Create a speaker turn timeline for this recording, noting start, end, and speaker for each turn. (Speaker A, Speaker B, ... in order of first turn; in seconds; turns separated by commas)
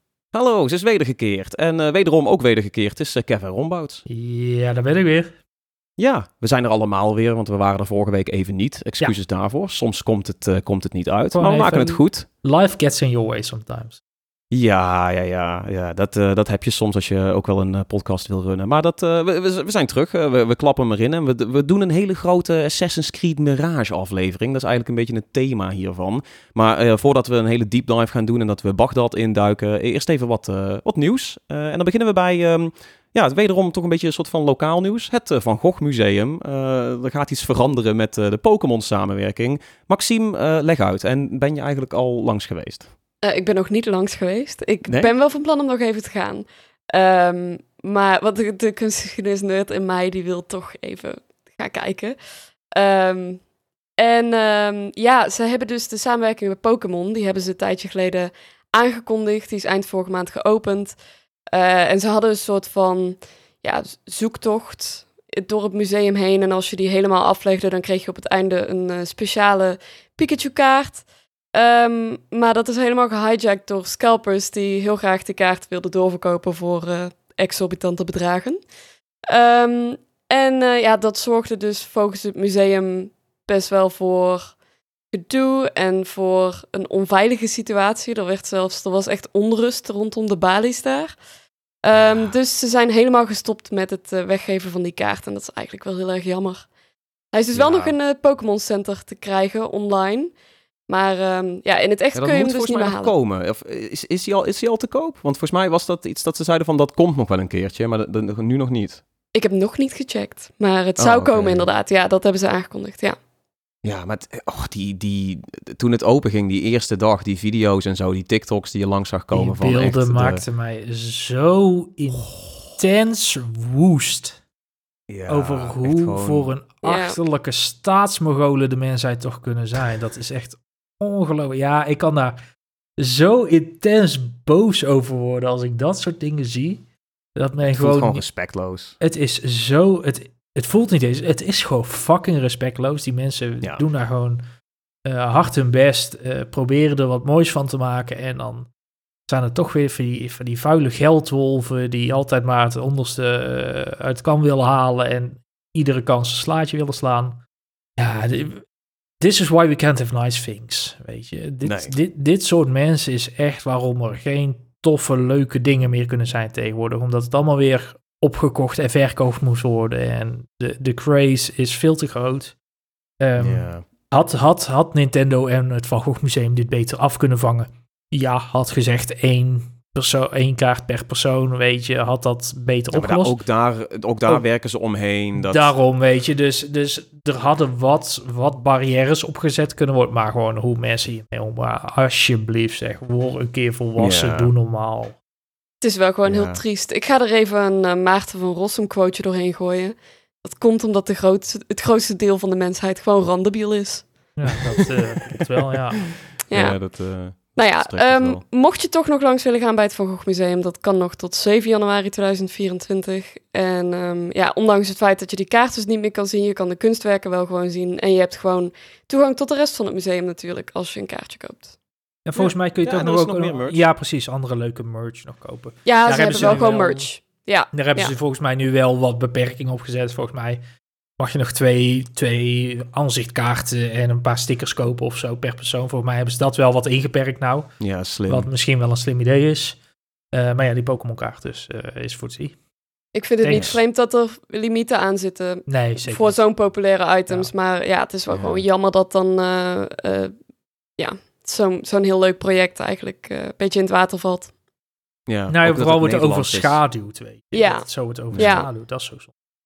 Speaker A: 0.3-4.0, Speaker B: 4.1-5.3, Speaker A: 6.0-12.3, Speaker B: 11.3-14.0, Speaker A: 14.5-42.9, Speaker C: 43.2-52.2, Speaker C: 52.7-53.4, Speaker C: 54.0-61.0, Speaker C: 61.5-78.6, Speaker C: 79.3-84.6, Speaker C: 85.1-91.2, Speaker C: 91.8-96.7, Speaker A: 91.9-92.3, Speaker C: 97.3-100.3, Speaker A: 97.5-98.0, Speaker C: 100.9-103.1, Speaker A: 102.2-109.0, Speaker C: 109.3-113.2, Speaker A: 111.0-111.7, Speaker A: 113.8-120.4, Speaker B: 119.3-124.4, Speaker A: 122.1-122.7, Speaker A: 125.1-126.5, Speaker B: 125.3-132.4, Speaker C: 126.8-127.2, Speaker B: 133.0-138.2, Speaker A: 137.7-139.0, Speaker B: 139.0-144.4, Speaker B: 145.1-148.7, Speaker B: 149.3-157.4, Speaker B: 158.0-158.7, Speaker B: 159.2-172.6, Speaker A: 161.6-161.9, Speaker B: 173.2-183.4, Speaker A: 173.4-173.9, Speaker A: 182.9-185.7, Speaker B: 185.3-195.2, Speaker A: 194.0-194.5, Speaker C: 195.8-204.6, Speaker A: 196.2-196.6, Speaker B: 204.4-206.1, Speaker A: 206.3-208.4, Speaker C: 206.5-221.7, Speaker B: 222.3-227.1, Speaker A: 222.8-223.8, Speaker C: 225.8-228.1, Speaker B: 227.7-230.6, Speaker B: 231.2-237.7, Speaker A: 237.8-238.5, Speaker B: 238.3-239.8, Speaker B: 240.3-242.6, Speaker C: 243.1-250.3, Speaker B: 243.4-243.8, Speaker A: 243.5-243.8, Speaker B: 245.7-246.4, Speaker A: 248.3-248.6, Speaker C: 251.0-254.5, Speaker A: 255.3-256.8, Speaker B: 255.5-259.3, Speaker C: 257.5-258.7, Speaker A: 258.3-258.6